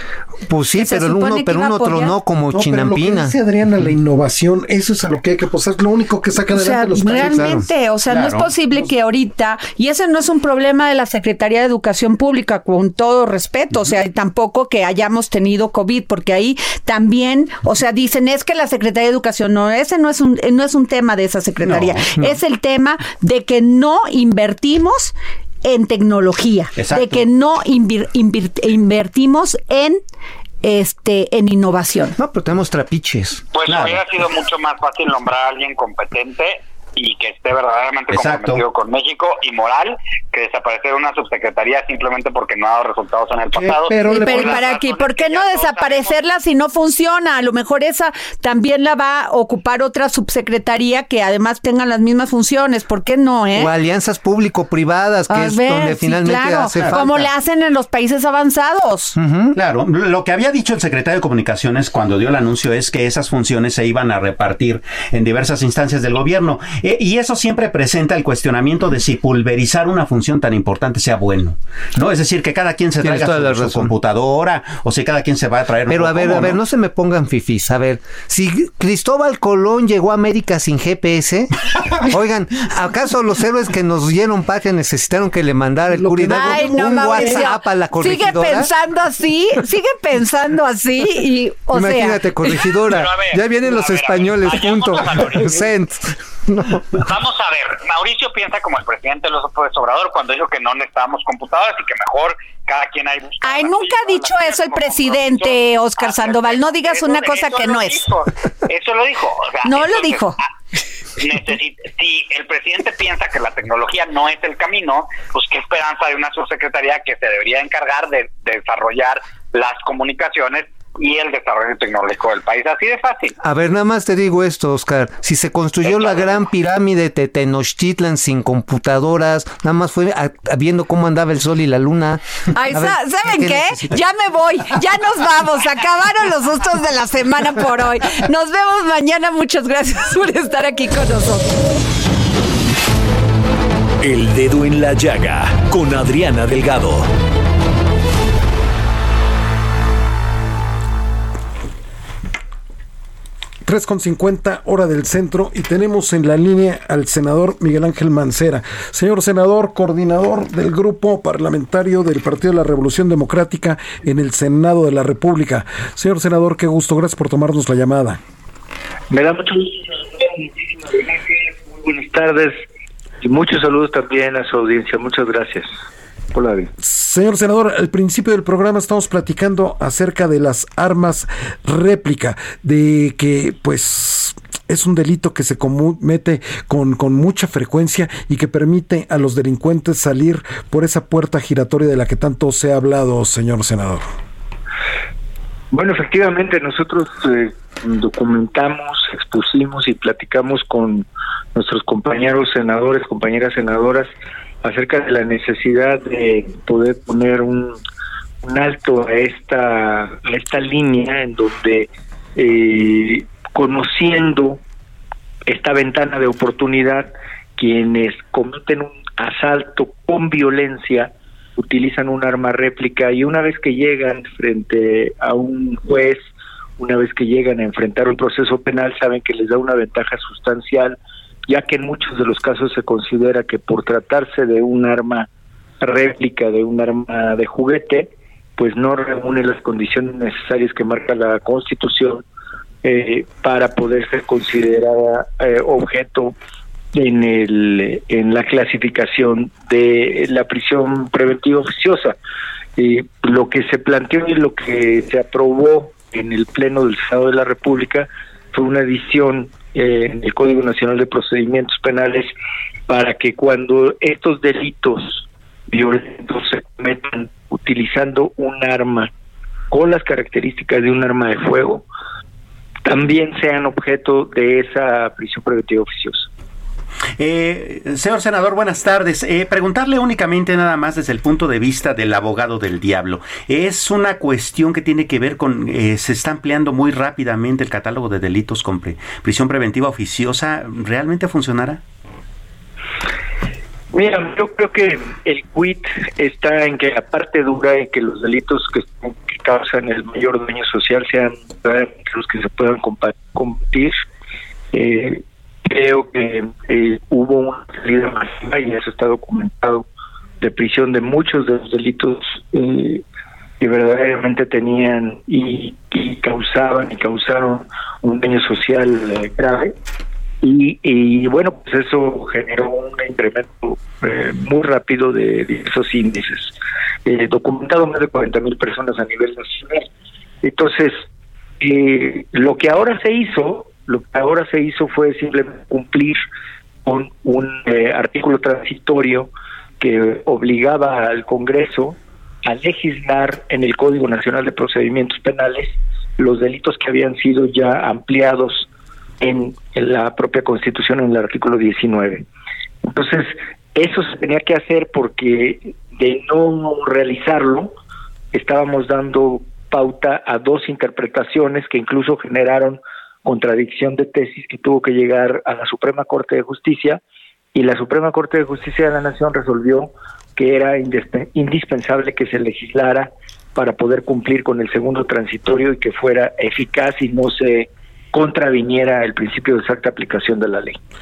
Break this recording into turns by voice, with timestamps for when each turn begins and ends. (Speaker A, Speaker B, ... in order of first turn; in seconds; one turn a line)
Speaker A: 0.5-3.4
Speaker B: 0.7-2.2
Speaker C: 2.5-7.6
Speaker B: 6.5-30.0
Speaker A: 7.2-7.6
Speaker D: 8.1-8.5
Speaker D: 21.6-22.0
Speaker D: 26.8-27.2
Speaker B: 30.6-32.1
Speaker A: 32.2-33.5
Speaker E: 33.5-46.1
Speaker D: 33.6-34.1
Speaker D: 38.1-38.6
Speaker D: 43.6-44.5
Speaker C: 43.9-44.6
Speaker B: 44.0-53.7
Speaker A: 53.5-57.3
Speaker B: 55.3-59.1
Speaker D: 56.8-57.0
Speaker A: 59.1-59.5
Speaker D: 59.5-76.6
Speaker A: 73.0-73.9
Speaker A: 75.9-81.5
Speaker A: 82.0-88.7
Speaker C: 85.9-87.2
Speaker B: 86.2-92.7
Speaker A: 91.7-97.0
Speaker E: 92.8-95.6
Speaker E: 96.9-110.5
Speaker B: 103.4-108.0
Speaker B: 109.7-110.4
Speaker E: 111.2-123.3
Speaker A: 123.4-132.2
Speaker E: 125.8-126.5
Speaker B: 132.5-141.7
Speaker A: 132.7-134.0
Speaker F: 144.0-147.1
Speaker C: 153.6-168.2
Speaker G: 169.1-172.6
Speaker G: 173.2-175.7
Speaker G: 176.3-176.7
Speaker C: 176.8-194.1
Speaker G: 195.7-204.1
Speaker G: 204.6-207.8
Speaker G: 208.4-214.6
Speaker G: 215.4-235.3
Speaker G: 235.8-242.2
Speaker G: 242.8-246.3
Speaker G: 246.9-252.2
Speaker G: 252.8-262.3
Speaker G: 262.9-269.1
Speaker G: 269.7-271.8
Speaker G: 272.8-276.3
Speaker D: 277.2-291.8
Speaker G: 293.9-304.0
Speaker G: 304.7-309.8
Speaker G: 310.4-313.0
Speaker G: 313.6-319.7
Speaker G: 320.4-329.9
Speaker G: 330.4-331.0
Speaker G: 331.6-336.2
Speaker G: 336.8-348.7
Speaker G: 349.2-352.2
Speaker G: 352.8-357.7
Speaker G: 358.3-367.0
Speaker G: 367.5-380.8